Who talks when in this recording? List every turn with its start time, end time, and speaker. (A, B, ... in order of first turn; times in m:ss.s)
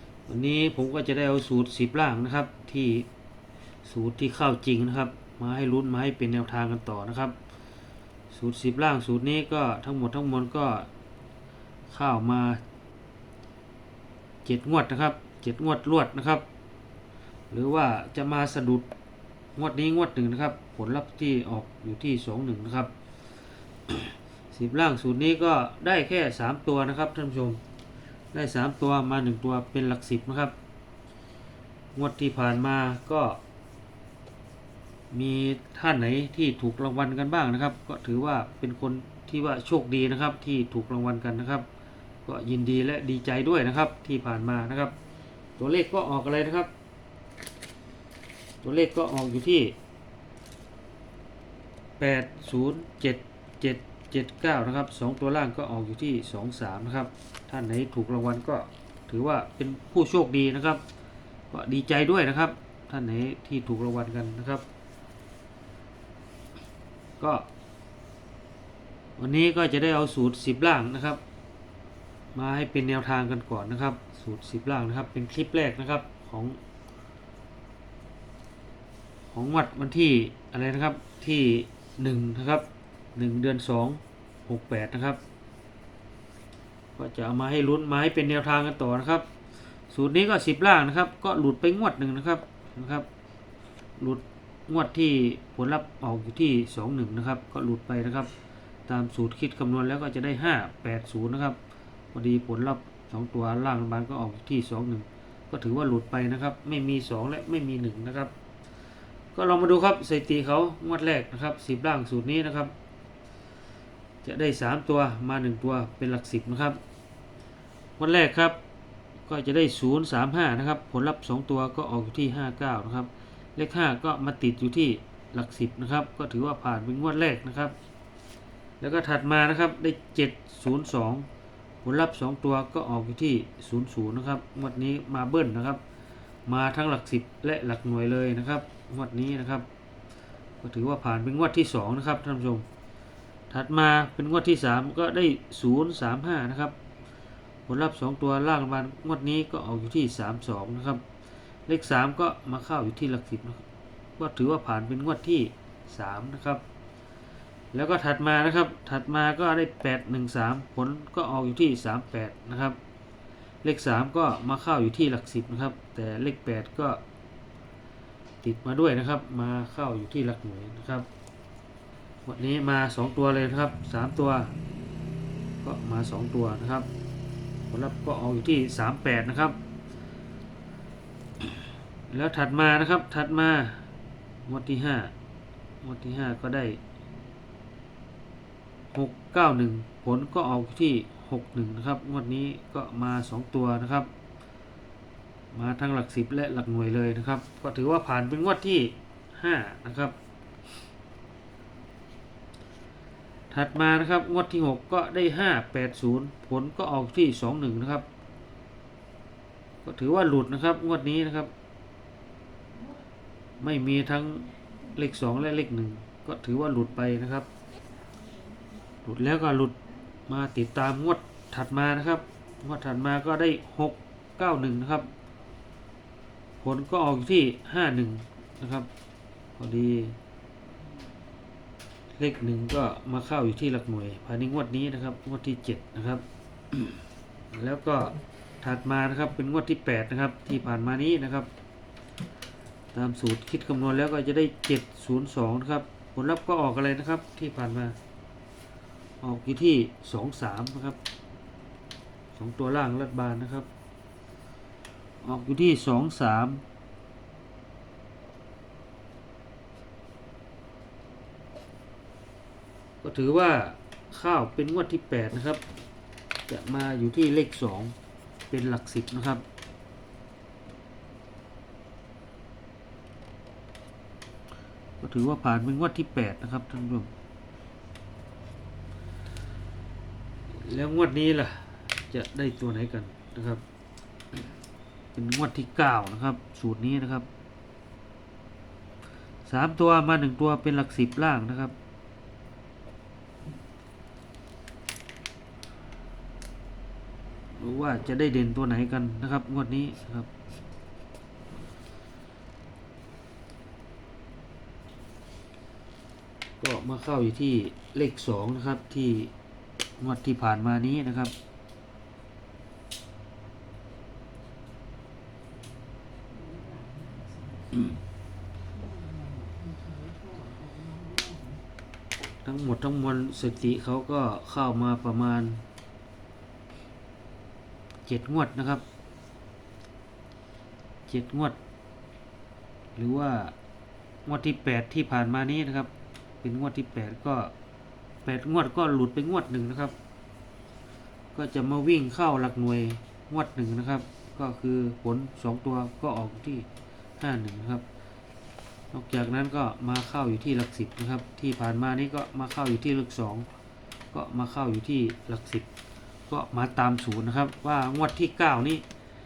0:00.3-0:03.1 A
0:03.8-0:07.4 A
0:08.3-0:10.9 A
0:11.9-0:12.6 A
0:14.4-0:16.4 A
0:17.5-0:18.9 A
0:19.6-0:22.9 A
0:23.9-0:27.6 A
0:28.3-0:30.6 A
0:32.0-0:33.4 A
0:35.1-0:41.7 A
0:42.3-0:45.0 A
0:45.6-0:46.7 A
0:48.6-0:49.8 A
0:52.0-1:00.8 A
1:01.5-1:04.6 A
1:07.2-1:07.5 A
1:09.2-1:11.2 A
1:12.3-1:16.6 A
1:19.3-1:25.2 A
1:27.0-1:29.3 A
1:29.9-1:33.1 A
1:34.0-1:38.3 A
1:38.9-1:41.6 A
1:42.1-1:48.3 A
1:49.4-1:52.7 A
1:54.2-1:56.8 A
1:58.0-1:58.6 A
1:59.3-2:07.8 A
2:08.8-2:11.3 A
2:11.8-2:15.8 A
2:16.5-2:19.7 A
2:20.6-2:22.6 A
2:23.5-2:26.8 A
2:27.7-2:31.0 A
2:31.7-2:33.6 A
2:34.2-2:36.6 A
2:37.7-2:42.8 A
2:43.6-2:47.0 A
2:48.4-2:51.1 A
2:52.3-2:54.5 A
2:55.6-2:56.9 A
2:57.7-2:59.6 A
3:02.1-3:03.8 A
3:04.5-3:05.1 A
3:05.8-3:06.8 A
3:08.9-3:14.1 A
3:15.5-3:20.2 A
3:23.5-3:28.1 A
3:29.8-3:31.5 A
3:33.6-3:37.5 A
3:39.0-3:45.1 A
3:46.6-3:48.9 A
3:49.6-3:50.2 A
3:52.2-3:56.2 A
3:57.5-4:01.5 A
4:02.9-4:08.0 A
4:09.2-4:11.0 A
4:12.4-4:13.7 A
4:15.2-4:16.6 A
4:23.0-4:25.6 A
4:26.5-4:28.0 A
4:28.5-4:29.4 A
4:35.0-4:37.1 A
4:40.5-4:43.6 A
4:45.2-4:47.3 A
4:49.5-4:51.8 A
4:57.6-5:00.3 A
5:06.6-5:09.3 A
5:10.0-5:11.3 A
5:22.4-5:25.6 A
5:28.1-5:28.8 A
5:31.1-5:31.6 A
5:33.0-5:33.6 A
5:34.3-5:35.9 A
5:36.4-5:37.5 A
5:38.2-5:40.0 A
5:41.3-5:46.7 A
5:47.2-5:47.8 A
5:48.9-5:53.5 A
5:54.1-5:55.7 A
5:56.3-5:58.8 A